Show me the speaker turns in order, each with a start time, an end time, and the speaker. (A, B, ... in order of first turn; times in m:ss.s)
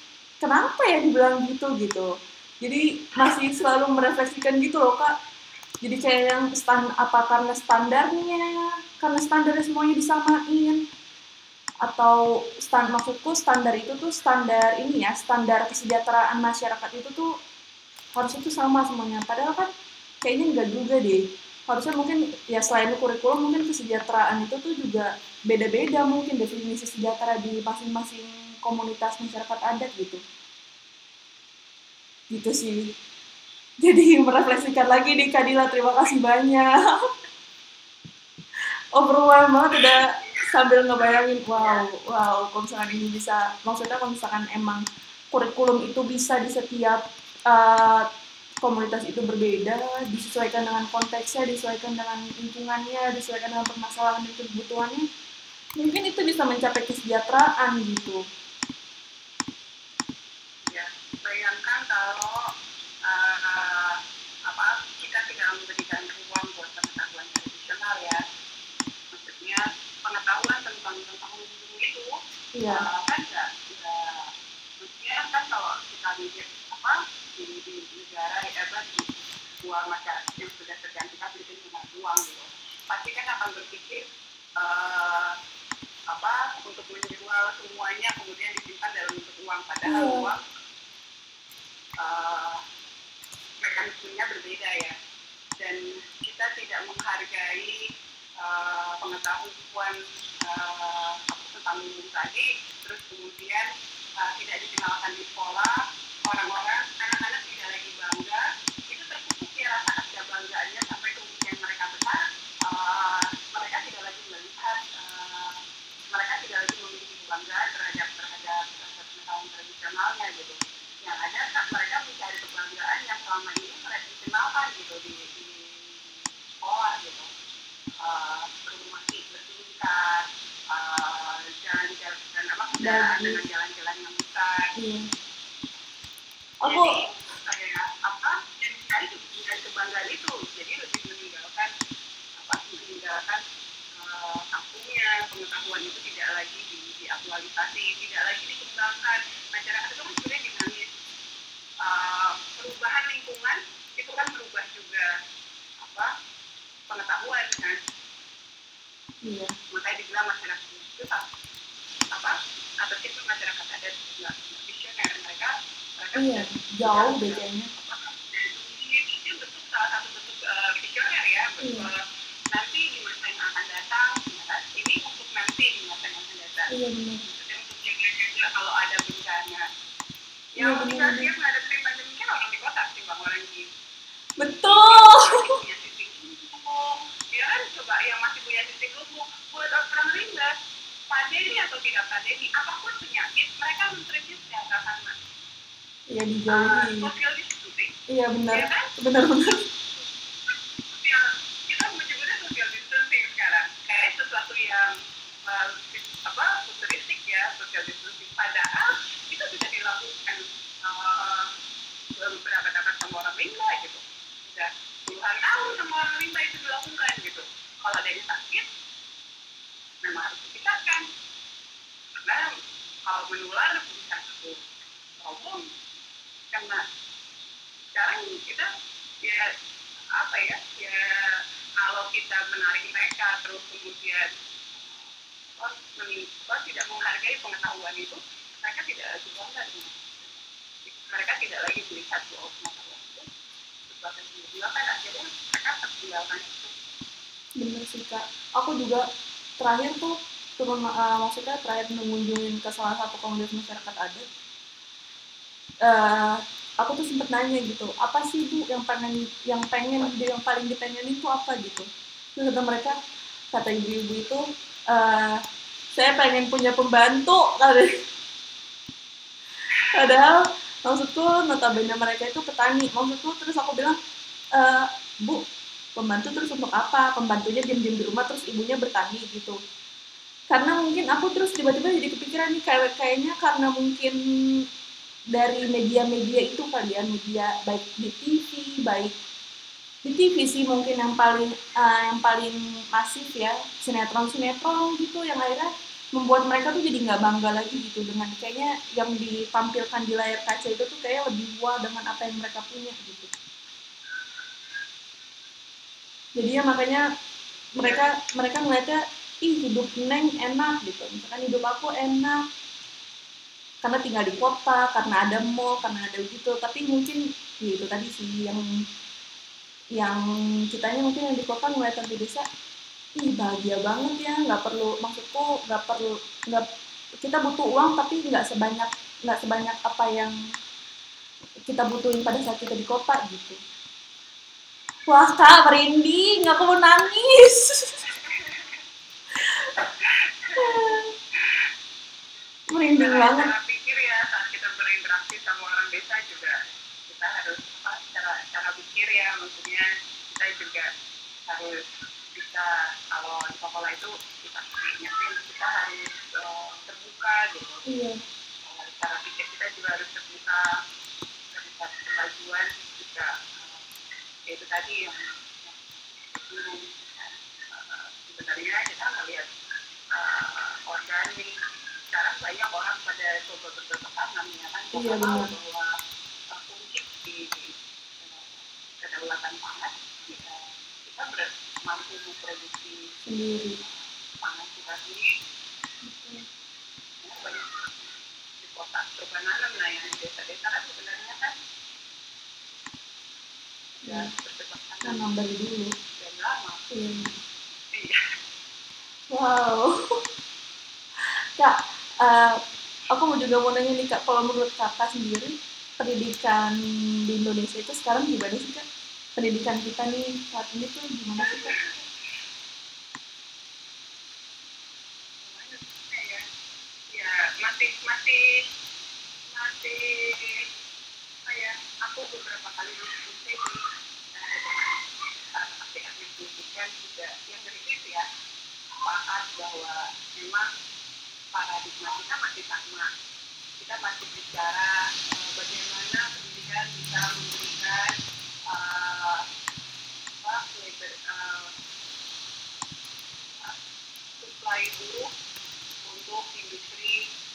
0:00.4-0:02.1 A
0:02.6-0:05.1 A
0:05.8-0:10.8 A
0:11.8-0:17.3 A
0:18.2-0:19.7 A
0:20.2-0:30.2 A
0:32.3-0:32.9 A
0:33.8-0:37.0 A
0:39.0-0:48.0 A
0:39.8-0:40.4 B
0:41.0-0:41.8 B
0:48.6-0:55.0 A
0:55.8-0:58.2 A
1:00.7-1:02.4 B
1:03.0-1:08.2 B
1:09.1-1:12.1 B
1:12.6-1:12.8 A
1:12.7-1:24.0 B
1:24.6-1:25.3 B
1:26.1-1:30.4 B
1:29.9-1:30.3 A
1:32.0-1:32.6 B
1:33.6-1:35.0 B
1:35.6-1:37.8 B
1:38.4-2:07.3 B
2:08.0-2:14.7 B
2:12.8-2:13.4 A
2:14.8-2:15.0 A
2:16.6-2:16.9 A
2:16.7-2:21.7 B
2:22.4-2:23.4 B
2:23.9-2:30.8 B
2:31.8-2:35.0 B
2:35.8-2:36.1 B
2:36.9-2:37.8 B
2:39.3-2:39.5 A
2:39.7-2:41.2 B
2:42.1-2:56.7 B
2:46.2-2:47.7 A
2:51.6-2:51.9 A
2:56.7-2:57.2 A
2:57.2-2:59.6 B
3:00.6-3:03.7 B
3:00.6-3:01.3 A
3:04.4-3:05.3 A
3:04.6-3:10.5 B
3:11.1-3:15.1 B
3:16.1-3:17.1 A
3:16.5-3:17.9 B
3:18.1-3:19.6 A
3:18.5-3:18.9 B
3:20.9-3:24.9 B
3:25.4-3:31.5 B
3:32.2-3:38.7 B
3:40.0-3:41.1 B
3:42.2-3:42.5 B
3:43.1-3:44.6 B
3:45.2-3:45.6 B
3:46.5-3:46.8 B
3:48.0-3:48.7 B
3:49.2-3:49.6 B
3:50.2-4:03.3 B
4:03.9-4:06.7 B
4:07.6-4:09.0 A
4:09.6-4:14.2 A
4:15.8-4:23.0 A
4:23.5-4:25.4 A
4:26.0-4:27.9 A
4:29.9-4:30.3 A
4:30.9-4:34.0 A
4:34.6-4:35.4 A
4:36.0-4:39.6 A
4:40.5-4:44.2 A
4:45.4-4:49.2 A
4:50.0-5:03.3 A
5:06.4-5:07.0 A
5:07.8-5:12.4 A
5:07.8-5:08.0 B
5:13.8-5:18.6 A
5:20.0-5:20.2 A
5:20.7-5:22.4 A
5:23.2-5:26.7 A
5:27.2-5:30.4 A
5:31.7-5:33.6 A
5:35.1-5:38.1 A
5:38.2-5:38.8 B
5:39.4-5:39.7 A
5:40.0-5:41.7 B
5:40.6-5:41.1 A
5:42.7-5:43.5 A
5:43.0-5:46.5 B
5:47.1-5:50.9 B
5:51.5-5:57.9 B
5:57.9-5:58.2 A
5:58.6-6:00.6 B
6:01.5-6:03.8 B
6:04.5-6:09.5 B
6:10.1-6:11.5 B
6:12.1-6:15.9 B
6:14.9-6:15.5 A
6:16.5-6:25.3 B
6:23.3-6:23.8 A
6:26.0-6:26.4 A
6:27.2-6:31.5 B
6:34.0-6:35.3 B
6:34.0-6:34.3 A
6:35.0-6:35.9 A
6:36.2-6:36.8 B
6:36.9-6:37.3 A
6:37.9-6:38.3 B
6:39.3-6:40.2 A
6:41.6-6:42.6 A
6:43.1-6:48.8 A
6:49.4-6:51.8 A
6:51.4-6:52.0 B
6:55.4-6:56.4 B
6:57.1-6:58.4 B
6:59.5-7:00.6 B
7:01.5-7:03.8 B
7:04.3-7:05.0 B
7:05.5-7:08.3 B
7:09.0-7:10.7 B
7:11.5-7:13.1 B
7:13.8-7:18.2 B
7:18.7-7:19.4 B
7:20.4-7:21.7 B
7:24.4-7:25.3 B
7:26.0-7:27.2 B